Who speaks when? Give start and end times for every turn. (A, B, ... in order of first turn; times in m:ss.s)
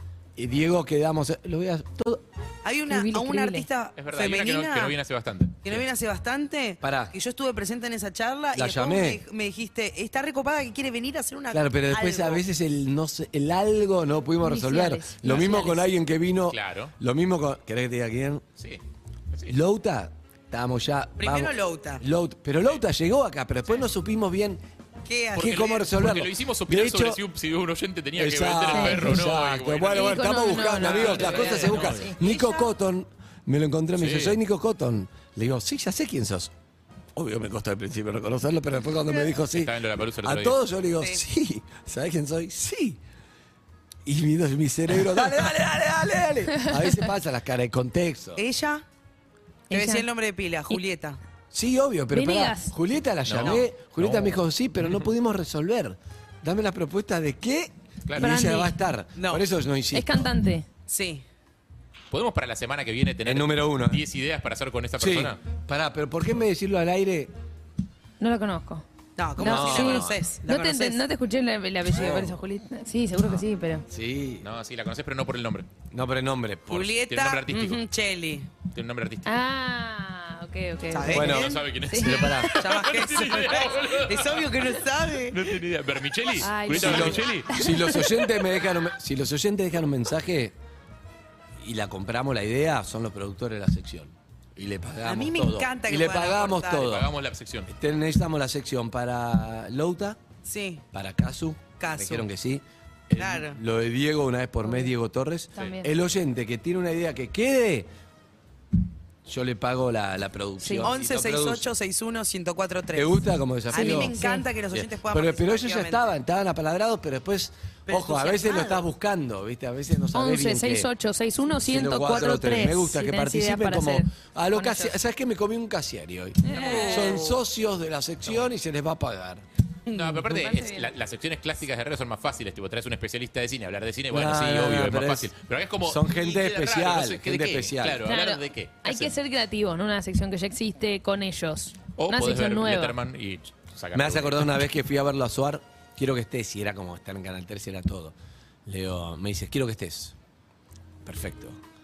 0:00.4-0:02.2 A
0:02.6-0:05.0 B
0:02.9-0:03.7 C
0:04.0-0:05.8 D
0:05.6-0:12.4 B
0:06.8-0:07.1 A
0:08.5-0:09.2 A
0:11.5-0:18.4 A
0:14.4-0:15.9 C
0:16.5-0:16.9 D
0:19.5-0:24.6 A
0:21.2-0:22.0 B
0:25.1-0:25.9 B
0:25.4-0:27.2 A
0:25.4-0:32.1 D
0:28.2-0:36.5 A
0:28.7-0:29.2 C
0:29.9-0:32.2 C
0:32.2-0:32.7 B
0:34.0-0:34.4 D
0:37.2-0:43.0 A
0:39.5-0:40.6 D
0:41.0-0:41.2 B
0:44.1-0:48.4 A
0:48.4-0:48.8 B
0:49.7-0:50.1 C
0:49.7-0:51.2 B
0:51.5-1:00.3 A
0:52.1-0:52.7 C
0:53.3-0:55.0 D
0:58.1-0:58.3 D
0:58.2-0:58.7 C
0:59.2-0:59.4 B
0:59.9-1:00.7 C
1:00.9-1:01.2 B
1:02.1-1:05.4 D
1:03.2-1:04.0 A
1:05.0-1:07.3 A
1:08.2-1:08.8 C
1:09.2-1:11.0 B
1:09.4-1:13.9 C
1:09.4-1:10.2 A
1:11.9-1:12.4 A
1:13.9-1:14.5 A
1:14.4-1:15.7 D
1:15.9-1:17.0 A
1:16.7-1:18.5 B
1:17.1-1:17.8 D
1:18.7-1:19.4 D
1:19.2-1:22.4 C
1:20.9-1:21.6 B
1:21.1-1:22.6 A
1:21.1-1:27.8 D
1:22.5-1:25.4 B
1:26.4-1:28.2 C
1:26.6-1:30.6 A
1:31.6-1:37.1 A
1:35.0-1:36.9 B
1:36.8-1:37.7 D
1:37.7-1:40.2 A
1:40.4-1:40.8 B
1:40.9-1:47.9 A
1:41.8-1:42.3 B
1:43.2-1:43.6 B
1:45.6-1:45.9 C
1:49.3-1:51.7 A
1:50.6-1:50.9 C
1:50.8-1:56.0 B
1:52.9-1:54.2 A
1:53.7-1:54.5 C
1:54.7-2:00.9 A
1:57.9-1:58.8 B
2:00.1-2:04.1 C
2:01.6-2:09.4 A
2:06.5-2:07.2 C
2:06.5-2:07.4 B
2:09.9-2:10.5 B
2:09.9-2:19.2 D
2:10.4-2:10.9 C
2:14.1-2:15.3 A
2:15.8-2:18.1 A
2:18.0-2:23.0 C
2:22.0-2:24.6 D
2:23.9-2:28.2 A
2:28.7-2:30.2 A
2:31.0-2:31.6 A